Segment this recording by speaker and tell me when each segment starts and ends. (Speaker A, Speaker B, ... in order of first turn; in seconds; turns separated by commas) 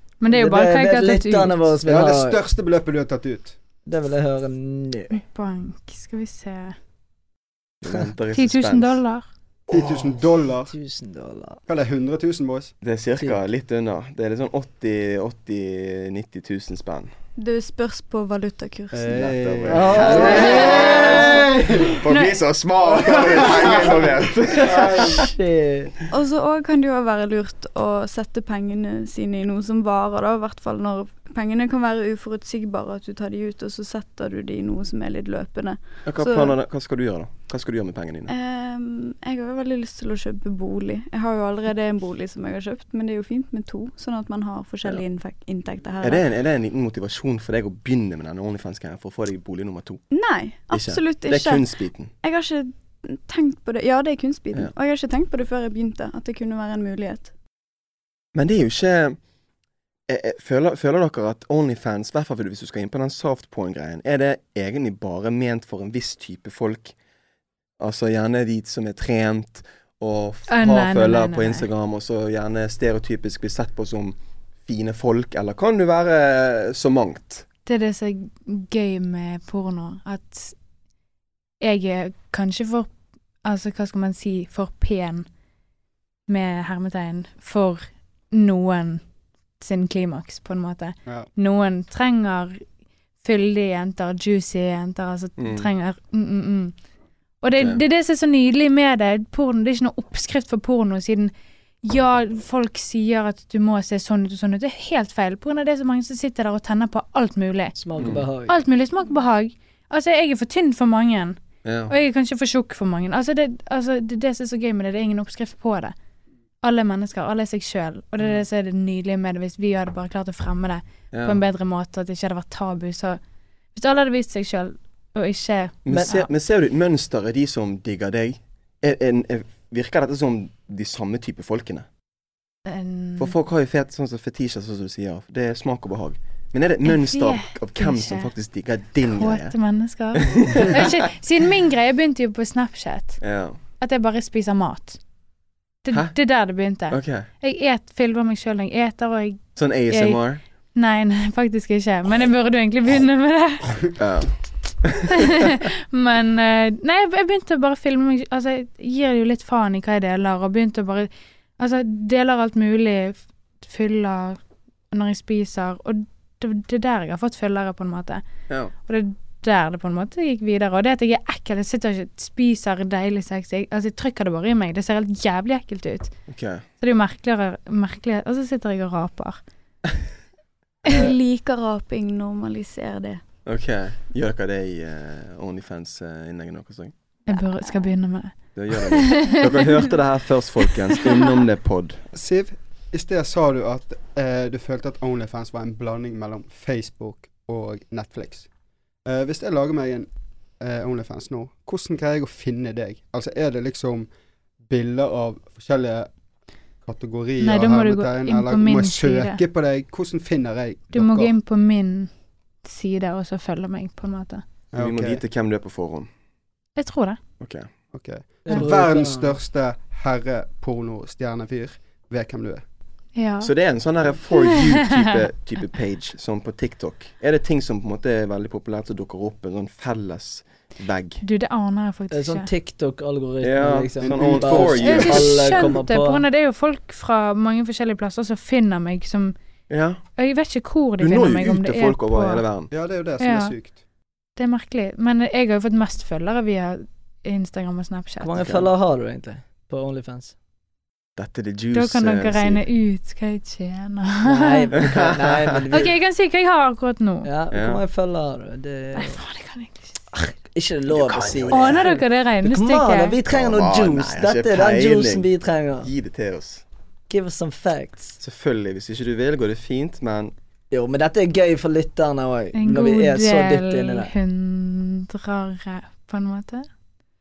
Speaker A: 0.2-1.6, Speaker B: 0.3-2.4, Speaker C: 1.9-3.6, Speaker B: 3.9-5.2, Speaker A: 5.1-6.8, Speaker D: 7.8-9.0, Speaker A: 8.3-9.3, Speaker C: 9.7-10.7, Speaker B: 9.8-10.1, Speaker B: 10.6-11.6, Speaker C: 11.7-12.7, Speaker D: 12.8-17.1, Speaker E: 17.4-19.2, Speaker C: 18.9-22.0, Speaker D: 19.2-25.3, Speaker B: 19.7-21.6, Speaker E: 20.4-20.8, Speaker A: 22.1-22.4, Speaker C: 22.9-25.3, Speaker B: 24.8-25.9, Speaker E: 26.1-36.6, Speaker D: 36.0-38.3, Speaker E: 38.3-46.3, Speaker D: 46.0-50.0, Speaker E: 50.1-57.3, Speaker D: 50.7-52.1, Speaker D: 58.3-59.2, Speaker D: 60.1-66.9, Speaker D: 67.8-77.5, Speaker A: 70.5-71.7, Speaker A: 77.7-80.6, Speaker A: 81.6-82.9, Speaker A: 83.4-85.3, Speaker A: 86.3-89.0, Speaker A: 89.6-92.6, Speaker A: 93.2-96.8, Speaker D: 95.4-95.7, Speaker A: 97.4-101.3, Speaker A: 101.8-107.8, Speaker B: 107.8-108.6, Speaker D: 108.0-108.3, Speaker A: 108.5-116.0, Speaker D: 111.6-111.9, Speaker A: 116.6-123.2, Speaker D: 121.1-121.4, Speaker A: 123.7-126.3, Speaker D: 125.8-131.9, Speaker A: 132.7-133.3, Speaker D: 133.2-139.6, Speaker A: 136.8-138.3, Speaker A: 139.1-143.2, Speaker D: 140.2-140.9, Speaker D: 143.2-143.6, Speaker A: 143.8-145.0, Speaker A: 145.8-150.2, Speaker D: 146.9-147.3, Speaker D: 149.6-150.4, Speaker A: 150.8-153.9, Speaker D: 153.9-155.2, Speaker A: 155.3-164.4, Speaker A: 164.9-168.2, Speaker A: 168.9-176.1, Speaker D: 176.3-176.7, Speaker A: 176.8-179.4, Speaker E: 180.9-183.2, Speaker D: 183.5-186.9, Speaker A: 187.3-189.7, Speaker D: 188.5-192.1, Speaker C: 192.1-198.5, Speaker C: 199.1-204.1, Speaker C: 204.7-206.1, Speaker C: 206.8-211.3, Speaker A: 207.4-209.4, Speaker A: 210.9-212.1, Speaker A: 212.6-214.4, Speaker C: 214.7-215.2, Speaker D: 214.8-216.1, Speaker A: 216.8-217.2, Speaker D: 217.4-217.7, Speaker C: 217.9-222.6, Speaker B: 218.5-219.4, Speaker A: 223.2-223.5, Speaker D: 223.4-231.2, Speaker A: 231.2-232.5, Speaker B: 232.1-236.2, Speaker D: 233.4-235.3, Speaker C: 234.0-235.1, Speaker A: 234.8-239.3, Speaker D: 239.7-240.0, Speaker A: 240.2-242.4, Speaker D: 241.0-242.7, Speaker C: 242.7-243.8, Speaker A: 243.2-243.6, Speaker A: 244.4-248.4, Speaker B: 248.2-250.3, Speaker D: 248.4-248.7, Speaker D: 251.2-252.6, Speaker A: 251.7-254.8, Speaker B: 254.3-255.9, Speaker D: 254.8-255.4, Speaker A: 255.7-257.3, Speaker B: 257.2-259.2, Speaker D: 257.5-257.8, Speaker A: 259.0-260.3, Speaker B: 260.5-265.9, Speaker D: 260.9-261.9, Speaker A: 261.5-263.2, Speaker D: 263.3-265.3, Speaker D: 265.8-266.6, Speaker B: 267.1-268.2, Speaker D: 268.2-270.3, Speaker B: 270.7-274.1, Speaker A: 272.5-276.7